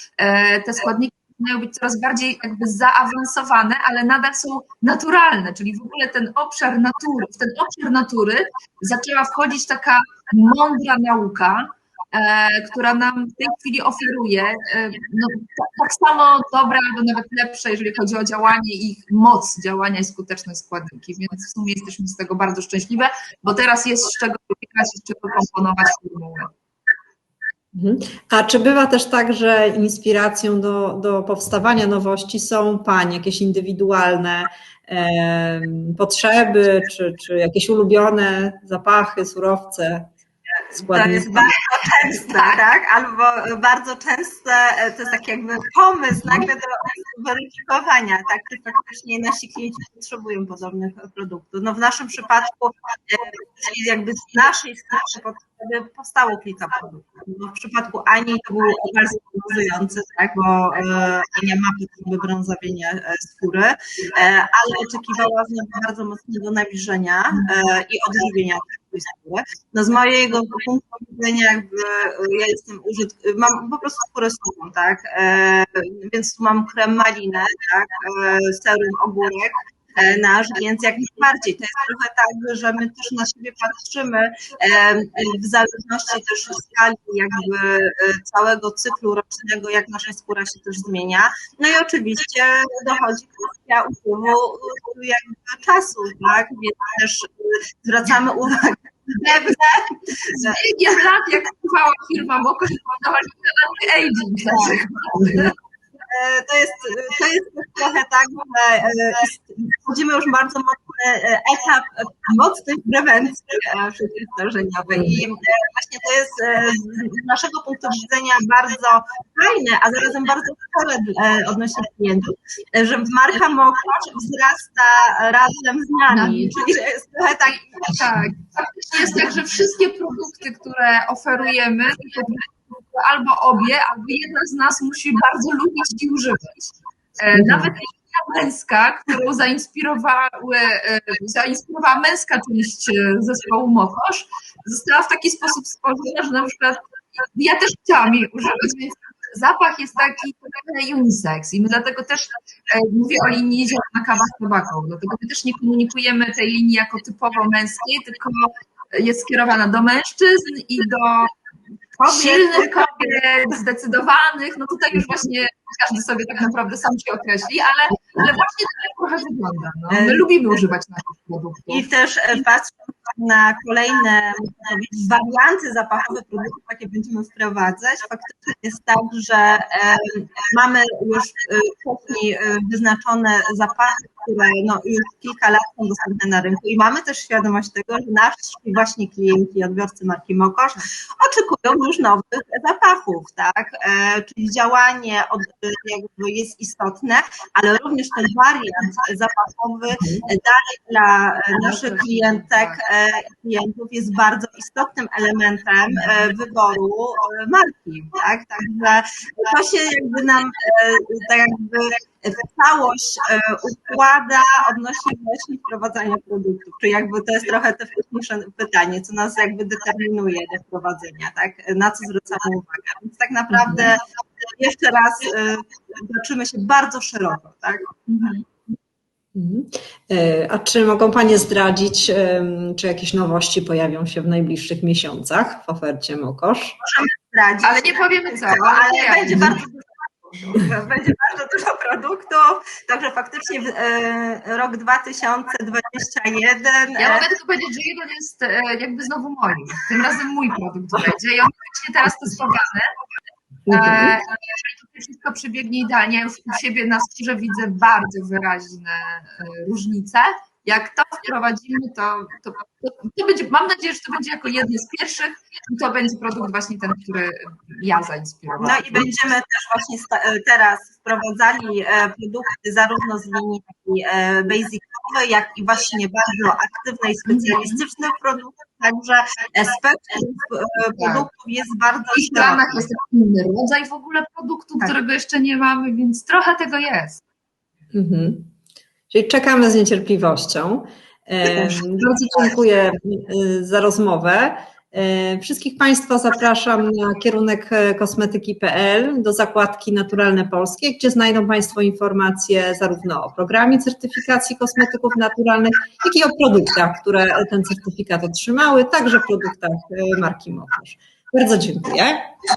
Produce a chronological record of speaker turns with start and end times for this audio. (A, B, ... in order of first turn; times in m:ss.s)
0:00.2-0:26.5 A
0:27.7-0:40.1 B
0:40.7-0:41.5 B
0:40.8-1:40.6 C
0:42.2-0:42.6 A
1:39.2-1:39.6 A
1:40.2-1:45.6 A
1:44.5-1:44.8 C
1:46.1-2:07.8 C
2:06.1-2:06.8 A
2:07.4-2:16.7 A
2:17.2-2:41.3 A
2:17.3-2:17.7 B
2:42.0-2:51.8 A
2:42.0-2:43.2 C
2:49.9-2:50.3 C
2:51.7-3:47.9 C
3:21.6-3:22.8 A
3:43.5-3:43.9 B
3:48.1-3:48.5 A
3:49.4-3:56.8 B
3:56.8-4:07.3 C
3:57.6-3:59.6 A
4:07.0-4:12.8 A
4:13.7-4:14.2 B
4:13.7-4:29.1 A
4:28.6-4:42.9 C
4:37.3-4:37.8 A
4:41.0-4:41.3 A
4:42.1-4:47.2 A
4:47.9-4:48.5 B
4:49.1-5:12.3 B
4:51.4-4:52.0 C